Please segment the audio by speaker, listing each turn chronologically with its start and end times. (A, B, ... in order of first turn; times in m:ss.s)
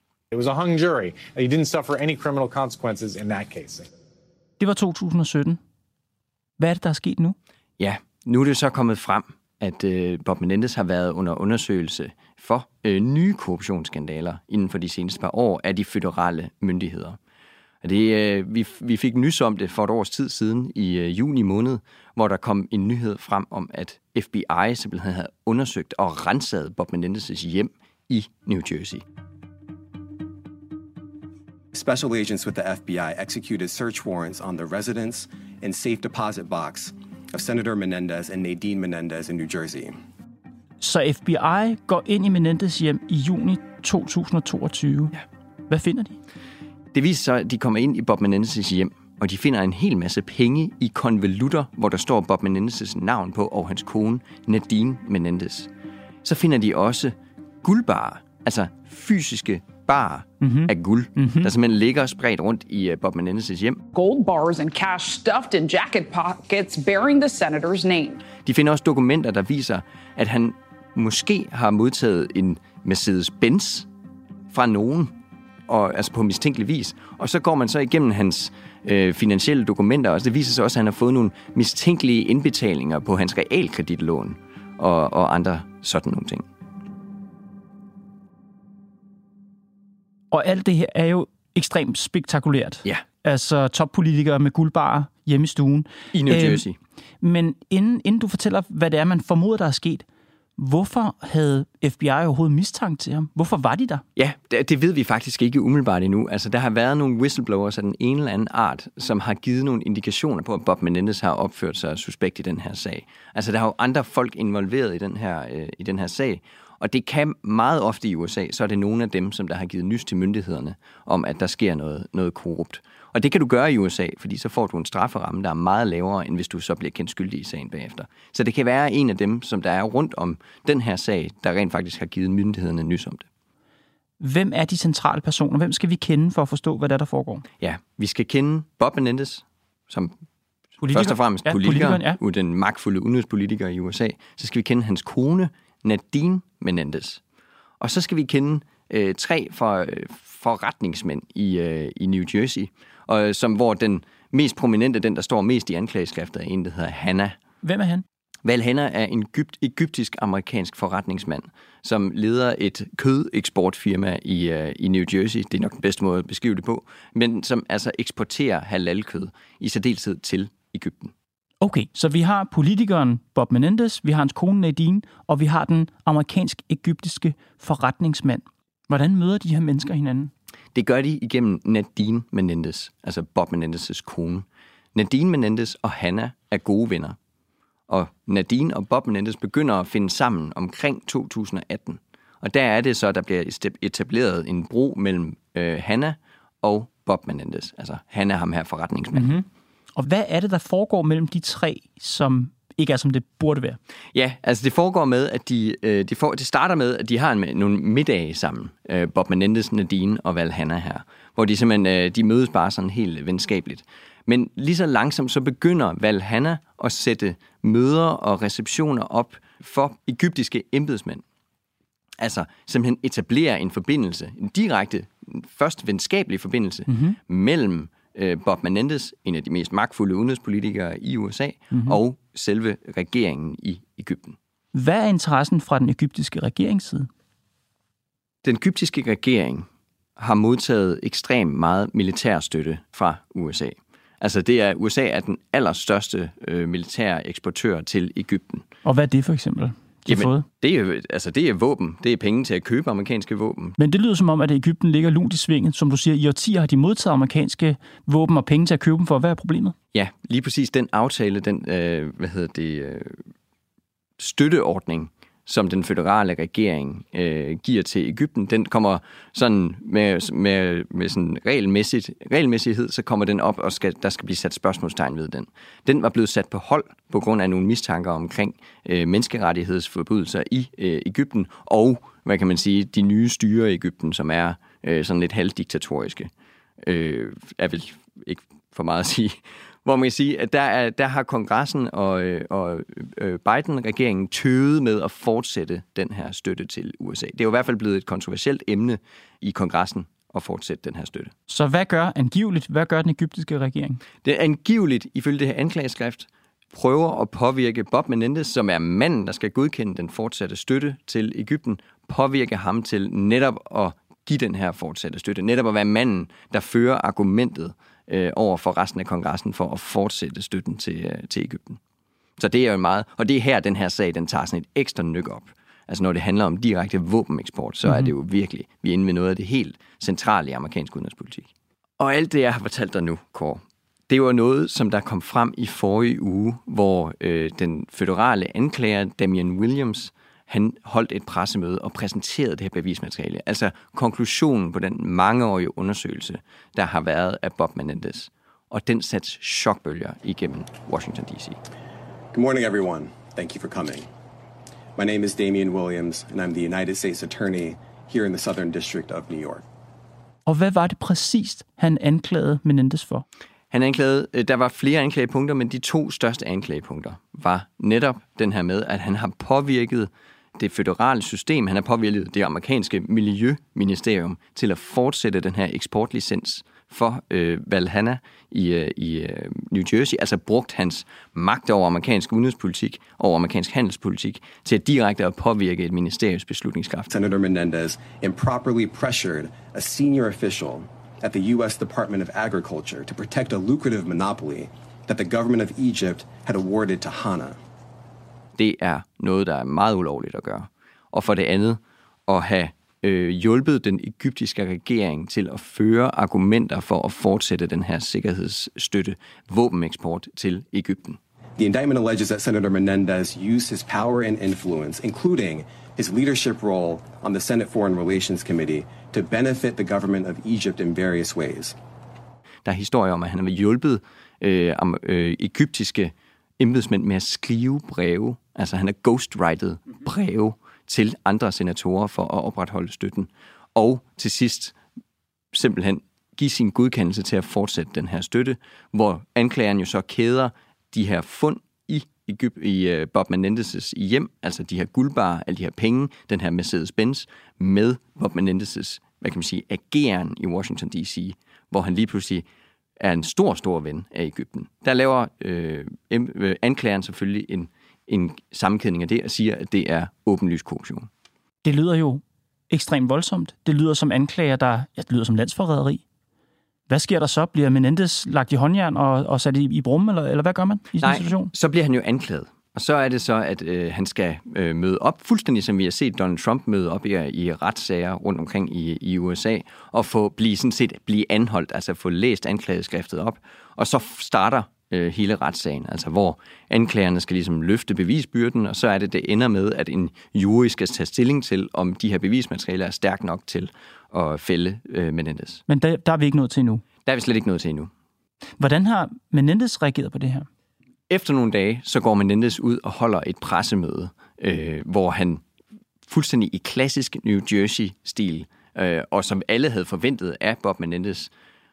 0:00.3-0:03.9 A
0:04.6-0:05.6 B
0:06.6-0:07.4 B
0:07.8-0:17.2 C
0:17.8-0:29.0 C
0:31.7-0:40.0 D
0:40.8-0:45.1 B
0:45.7-0:46.2 B
0:46.9-0:55.7 C
0:56.2-1:03.8 C
1:00.4-1:01.5 B
1:03.9-1:08.2 E
1:08.4-1:13.9 C
1:14.5-1:15.1 C
1:15.7-1:26.4 C
1:30.3-1:36.6 B
1:36.1-1:36.8 C
1:37.2-1:40.0 B
1:40.6-1:44.0 B
1:44.2-2:13.3 C
2:14.2-2:17.4 B
2:17.6-2:20.1 C
2:20.8-2:22.2 B
2:20.9-2:27.2 C
2:27.8-2:37.4 C
2:37.6-2:38.0 B
2:38.4-2:51.1 C
2:51.6-3:00.3 B
3:00.7-3:07.2 C
3:07.9-3:19.4 C
3:19.1-3:23.8 B
3:24.1-3:41.2 C
3:42.2-3:54.4 C
3:46.9-3:47.2 B
3:51.7-3:52.0 B
3:54.7-3:57.1 B
3:58.4-4:08.6 C
4:08.8-4:10.4 B
4:10.1-4:13.8 C
4:13.8-4:19.8 B
4:19.9-4:23.2 C
4:24.2-4:46.3 C
4:46.8-5:01.3 C
5:01.5-5:04.0 B
5:04.2-5:21.8 C
5:22.4-5:51.6 C
5:27.9-5:28.1 B
5:52.3-5:54.1 D
5:55.0-5:59.6 D
6:00.5-6:03.2 B
6:03.7-6:27.1 C
6:27.1-6:37.6 D
6:38.6-6:51.2 C
6:51.6-7:01.8 D
7:02.6-7:14.8 C
7:15.5-7:32.5 C
7:33.0-7:41.1 C
7:41.6-7:46.0 B
7:46.9-7:51.5 B
7:51.0-8:15.6 C
8:15.7-8:16.8 B
8:17.0-8:17.9 C
8:18.6-8:20.5 B
8:21.1-8:25.4 C
8:26.0-8:31.3 C